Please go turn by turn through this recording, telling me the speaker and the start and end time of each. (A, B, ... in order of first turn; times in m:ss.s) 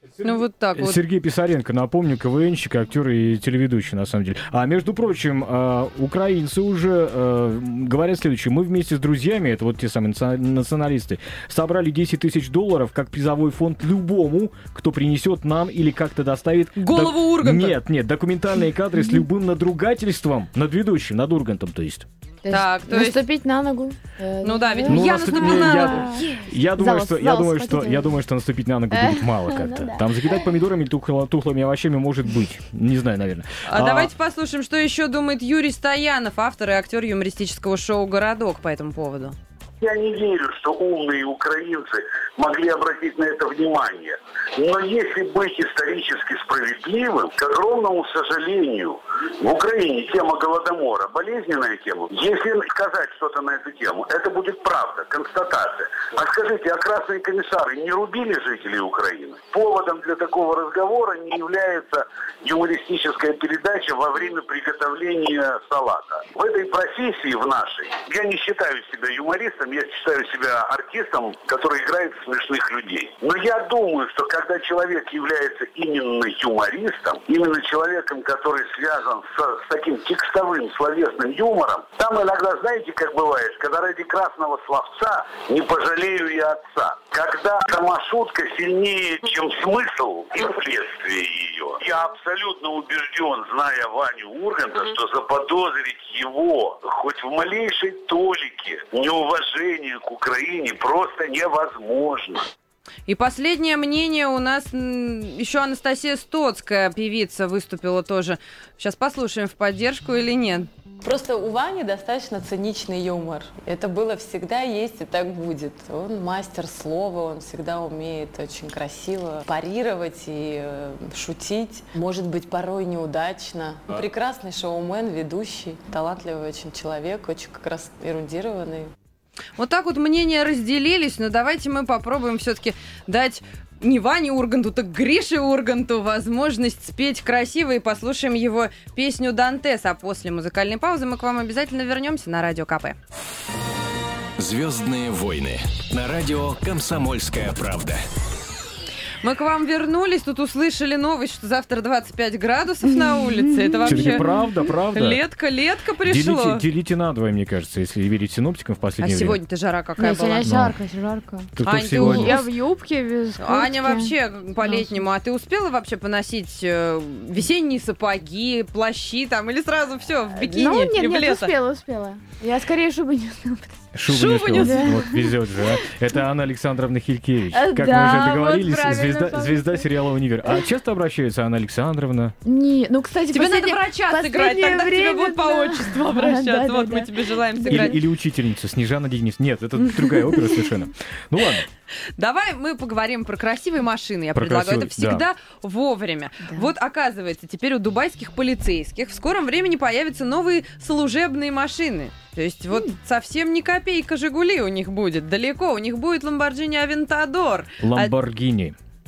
0:00.2-0:01.0 A
0:00.8-0:22.1 B
0:16.8-0:17.8 A
0:22.4-0:28.2 C
0:22.5-0:23.2 A
0:24.4-0:26.3 A
0:24.9-0:34.1 B
0:28.9-0:30.4 C
0:33.6-0:39.4 A
0:39.8-1:42.5 D
1:43.1-1:50.7 A
1:51.0-2:08.9 E
2:09.6-2:23.0 A
2:24.4-2:28.0 F
2:29.2-2:34.2 A
2:32.9-2:34.5 C
2:33.8-2:35.2 B
2:34.9-2:36.6 A
2:36.0-2:39.4 B
2:39.0-2:40.5 A
2:40.0-2:45.0 C
2:40.4-2:40.8 B
2:41.6-2:42.4 B
2:41.6-2:42.4 A
2:43.4-2:51.5 A
2:50.3-2:53.9 C
2:53.9-3:02.3 B
2:54.1-2:55.0 A
2:54.5-2:55.4 C
2:57.5-2:59.8 C
3:02.4-3:08.0 C
3:03.3-3:08.0 A
3:07.7-3:11.6 B
3:12.2-3:28.1 A
3:14.3-3:15.2 B
3:27.8-3:28.8 B